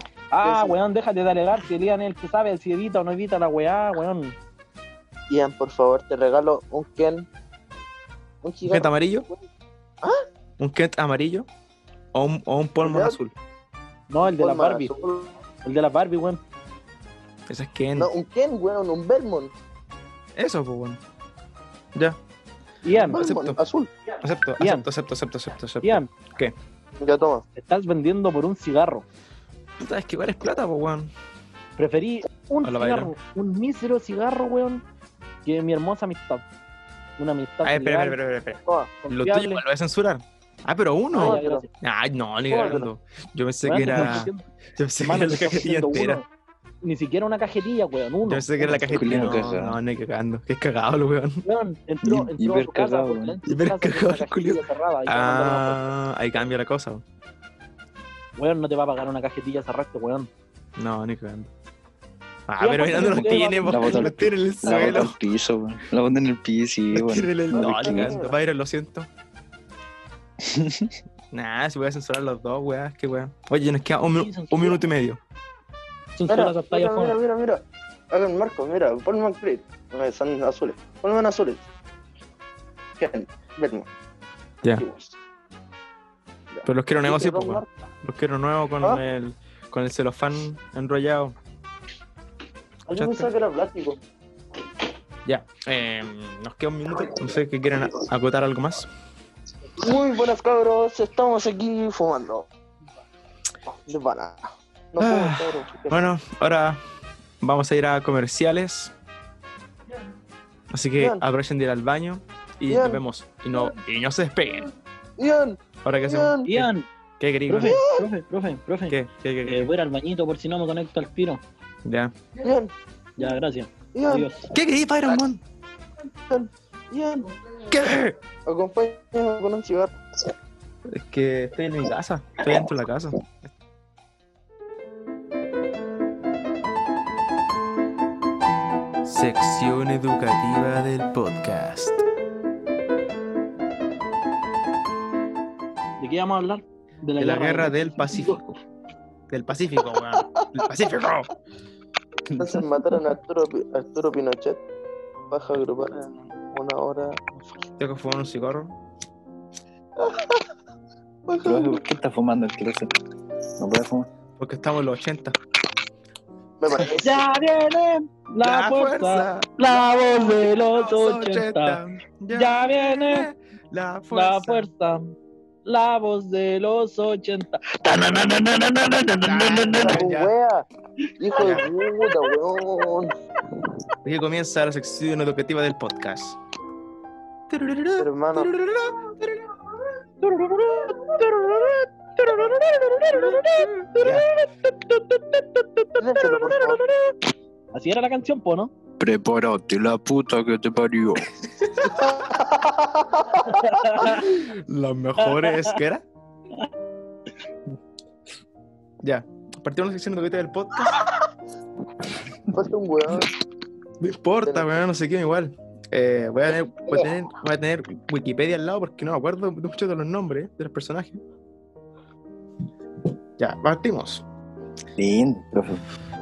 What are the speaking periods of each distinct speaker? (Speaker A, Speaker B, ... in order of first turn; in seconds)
Speaker A: 0.3-4.4, 14.1-14.9, 15.7-16.4, 22.8-23.2, 24.6-24.9, 25.8-26.1, 27.6-29.1, 31.8-34.8, 35.5-36.4, 37.2-38.2, 39.0-39.6, 41.2-41.7, 43.6-44.5, 45.0-46.2, 46.8-49.4, 51.5-55.8, 58.4-60.3, 62.6-64.1, 74.2-74.8, 76.2-77.2, 116.5-116.9, 117.5-121.4, 123.2-124.5, 146.0-148.4, 166.9-171.8, 172.3-173.3, 174.1-175.1, 175.7-180.1, 190.2-197.2, 197.7-198.7, 203.5-204.3, 205.2-205.7
Speaker B: 0.4-0.8, 5.3-7.3, 8.4-9.4, 12.8-13.2, 14.2-15.3, 18.0-19.5, 23.1-23.9, 27.0-27.4, 41.1-41.7, 42.5-42.9, 67.5-68.3, 76.3-81.7, 83.0-83.9, 84.7-85.2, 86.5-87.7, 92.9-94.0, 99.8-102.5, 103.8-106.0, 112.7-113.0, 115.2-116.5, 117.6-118.1, 122.4-122.7, 123.9-124.3, 126.3-127.3, 128.5-129.9, 152.4-154.6, 155.3-157.2, 160.0-160.5, 161.3-161.8, 166.6-167.3, 179.7-180.7, 181.2-183.1, 188.0-188.5, 196.0-196.8, 202.0-204.3, 212.5-213.3, 214.5-214.8
Speaker C: 8.7-9.3, 10.6-11.5, 12.1-13.3, 17.5-18.1, 20.4-21.0, 23.1-23.6, 24.2-26.5, 29.8-31.1, 32.6-33.1, 37.6-46.2, 48.2-51.4, 53.5-57.0, 60.8-61.5, 62.5-65.2, 66.9-69.1, 71.3-75.2, 86.7-91.3, 92.9-93.3, 95.2-98.9, 105.0-106.8, 107.4-108.9, 110.7-114.7, 115.8-117.8, 118.9-119.7, 121.8-122.1, 124.5-125.4, 127.7-128.2, 130.9-133.5, 139.1-142.0, 147.2-148.6, 149.3-151.3, 157.8-158.7, 164.4-165.4, 168.4-169.5, 170.5-174.7, 179.2-180.3, 181.4-181.7, 184.0-186.4, 187.5-189.4, 194.0-194.3, 204.1-206.0, 209.0-211.0, 214.0-221.2, 223.4-224.2
Speaker D: 48.6-49.8, 52.0-53.4, 62.9-68.2, 70.4-71.0, 152.3-152.6, 161.4-162.9, 163.6-164.1, 199.0-201.3, 225.0-225.8